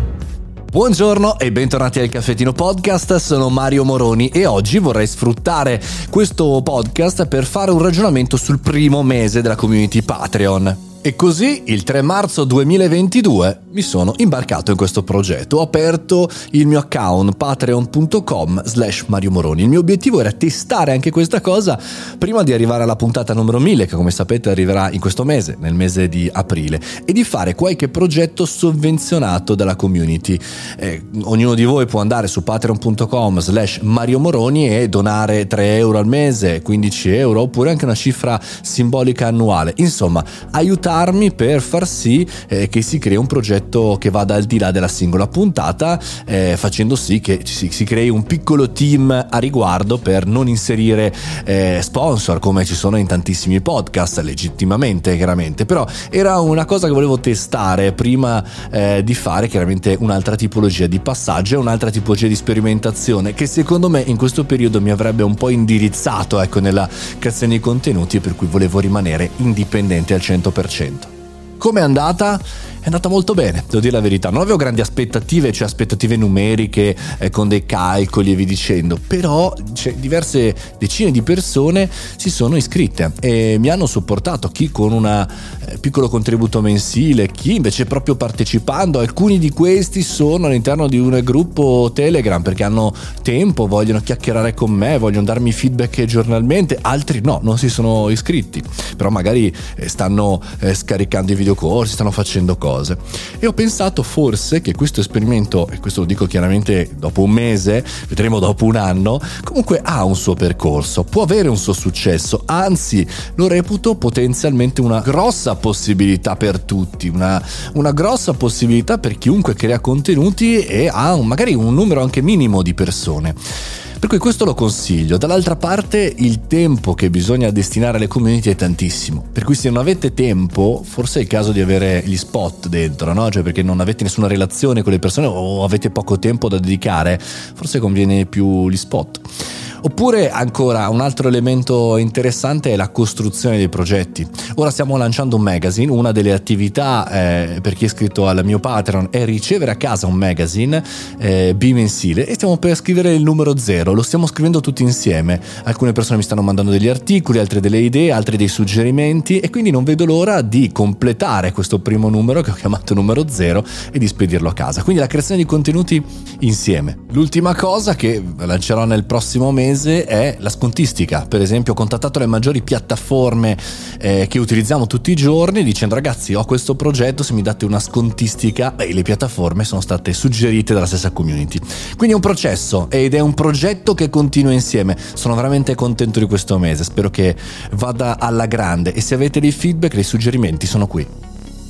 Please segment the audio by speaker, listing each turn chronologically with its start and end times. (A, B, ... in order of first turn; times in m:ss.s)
0:00.7-2:03.4 A
2:04.0-2:19.3 A
2:19.8-3:11.1 A